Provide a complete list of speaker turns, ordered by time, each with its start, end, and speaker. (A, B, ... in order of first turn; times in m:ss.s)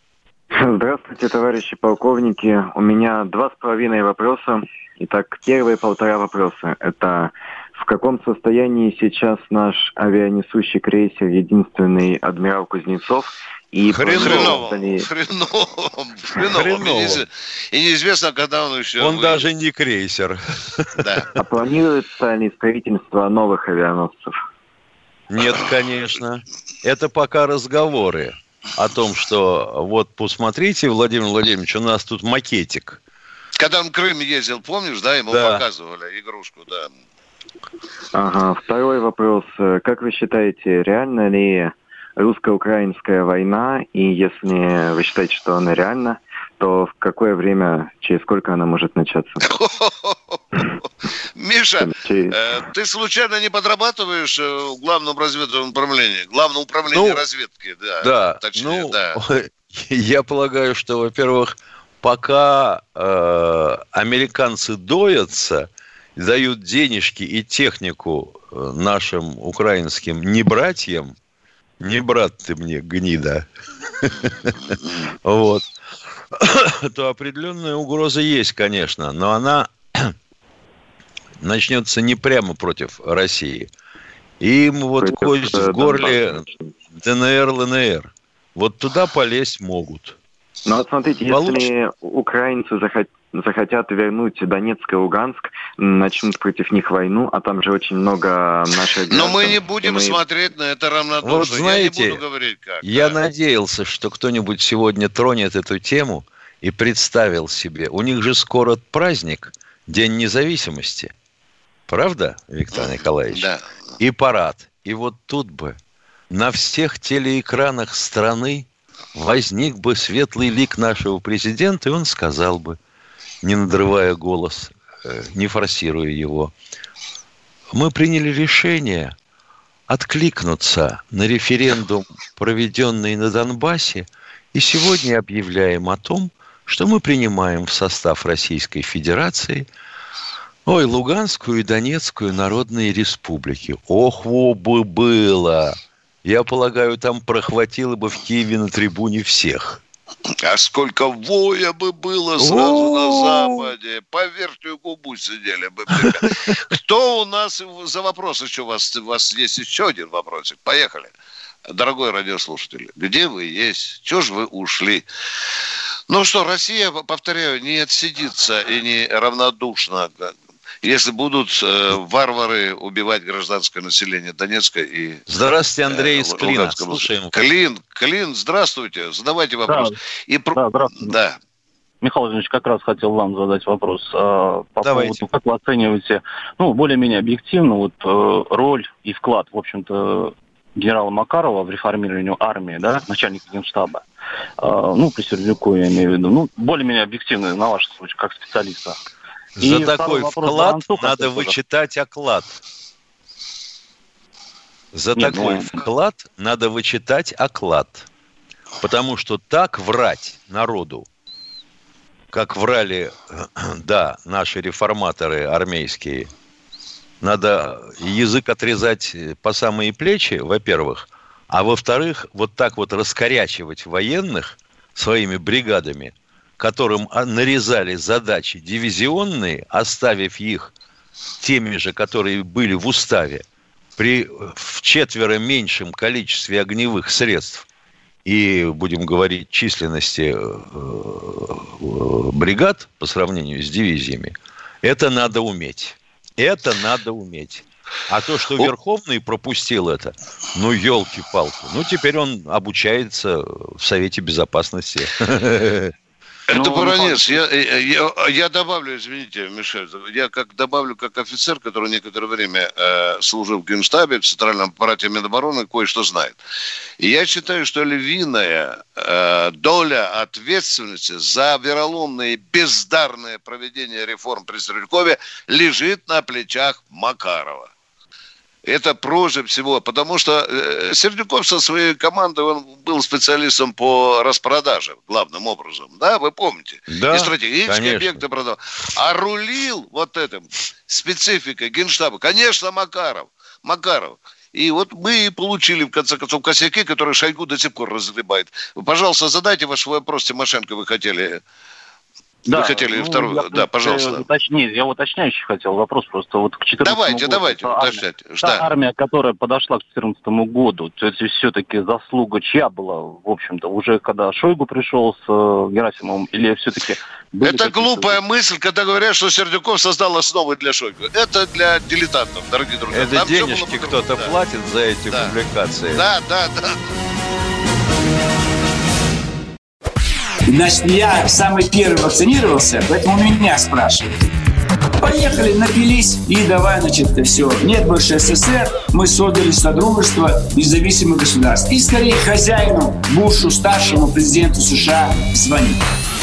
0:00.5-0:15.1 A
0:13.9-0:14.6 B
0:14.1-0:19.4 C
0:16.4-0:17.2 B
0:19.0-0:21.0 B
0:21.0-0:21.3 C
0:21.4-0:24.3 A
0:25.3-0:33.0 B
0:25.4-0:25.7 C
0:33.6-0:36.9 C
0:35.3-0:35.6 B
0:38.1-0:49.4 A
0:49.4-0:50.4 C
0:51.4-0:59.2 C
0:51.8-0:52.4 A
0:56.9-0:57.2 B
0:58.0-1:11.1 B
1:11.8-1:13.4 B
1:14.0-1:14.5 B
1:15.2-1:15.6 B
1:16.3-1:20.1 B
1:21.4-1:23.7 B
1:24.4-1:26.4 B
1:25.0-1:26.7 A
1:27.0-1:30.2 B
1:30.6-1:40.2 A
1:31.3-1:31.7 B
1:39.1-1:43.2 C
1:41.2-1:42.2 B
1:42.8-1:51.1 B
1:51.9-1:53.5 B
1:52.7-1:53.9 C
1:54.0-1:55.8 B
1:56.3-2:02.8 B
2:03.4-2:06.5 B
2:07.7-2:09.1 B
2:09.9-2:19.7 B
2:20.6-2:29.8 B
2:30.4-2:41.1 C
2:32.4-2:33.7 B
2:35.9-2:36.5 B
2:41.7-2:45.0 C
2:46.1-2:55.2 C
2:55.3-2:57.4 B
2:55.9-3:01.4 C
2:59.7-3:00.0 D
3:00.5-3:01.2 D
3:02.0-3:14.0 D
3:04.8-3:05.2 B
3:14.6-3:19.0 D
3:19.6-3:22.6 B
3:19.6-3:21.6 D
3:24.9-3:28.0 B
3:25.1-3:25.9 D
3:28.8-3:31.1 B
3:32.3-3:36.3 B
3:37.2-3:50.7 B
3:51.4-3:53.4 B
3:54.0-3:57.6 B
3:58.2-4:15.9 B
4:16.5-4:26.4 C
4:16.5-4:17.4 D
4:27.0-4:37.7 C
4:38.6-5:01.4 C
4:46.9-4:48.2 B
5:02.4-5:18.2 D
5:02.5-5:04.2 C
5:06.8-5:08.6 C
5:17.4-5:24.3 C
5:22.9-5:26.0 B
5:25.9-5:26.8 C
5:30.5-5:34.1 E
5:35.0-5:45.8 E